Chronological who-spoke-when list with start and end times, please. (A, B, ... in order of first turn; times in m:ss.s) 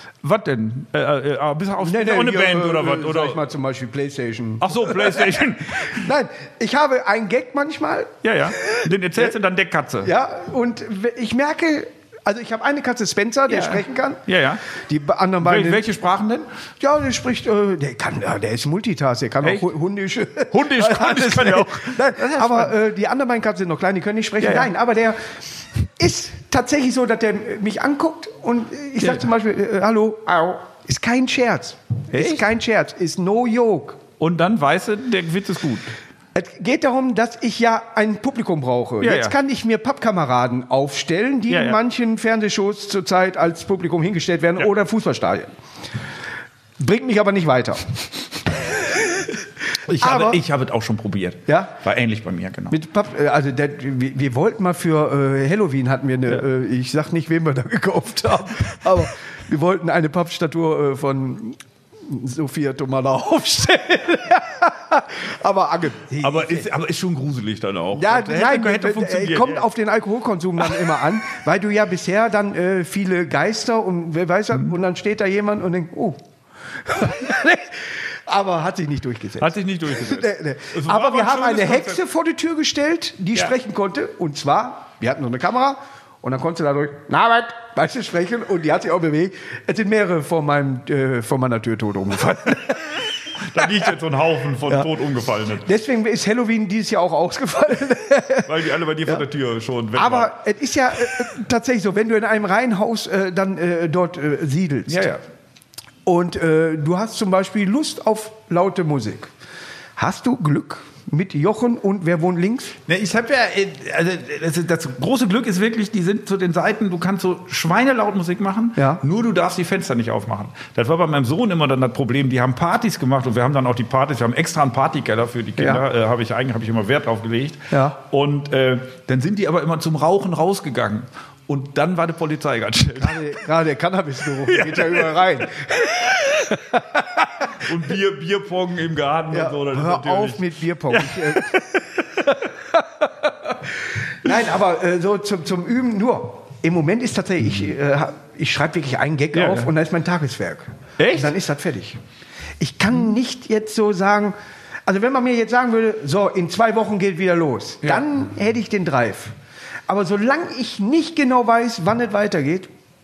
0:00.2-0:03.4 A
0:01.8-0:09.3 B
0:04.6-0:06.1 A
0:08.2-0:10.1 A
0:10.0-0:15.9 B
0:13.5-0:14.6 A
0:15.4-0:16.5 A
0:16.8-0:25.2 B
0:20.5-0:22.8 A
0:24.4-0:24.7 A
0:25.8-0:34.0 B
0:29.0-0:29.3 A
0:32.1-0:32.5 A
0:34.2-0:35.9 A
0:36.4-0:45.5 B
0:39.0-0:39.4 A
0:41.5-0:41.8 A
0:46.8-0:50.4 B
0:49.9-0:52.8 A
0:51.5-0:51.7 B
0:52.7-1:06.7 B
1:06.2-1:09.6 A
1:07.9-1:16.2 B
1:10.6-1:11.0 A
1:16.8-1:33.0 B
1:19.4-1:22.0 A
1:33.3-1:35.7 A
1:35.6-1:39.2 B
1:38.5-1:40.4 A
1:39.9-1:45.1 B
1:44.9-1:45.2 A
1:46.1-1:49.3 B
1:50.0-1:52.8 B
1:52.9-2:13.4 A
1:58.8-1:59.0 B
2:05.6-2:05.8 B
2:07.7-2:08.0 B
2:13.0-2:17.6 B
2:14.4-2:15.3 A
2:17.5-2:22.4 A
2:19.3-2:32.0 B
2:29.3-2:29.7 A
2:31.0-2:31.4 A
2:32.6-2:34.4 B
2:34.9-2:39.3 B
2:39.9-2:42.7 B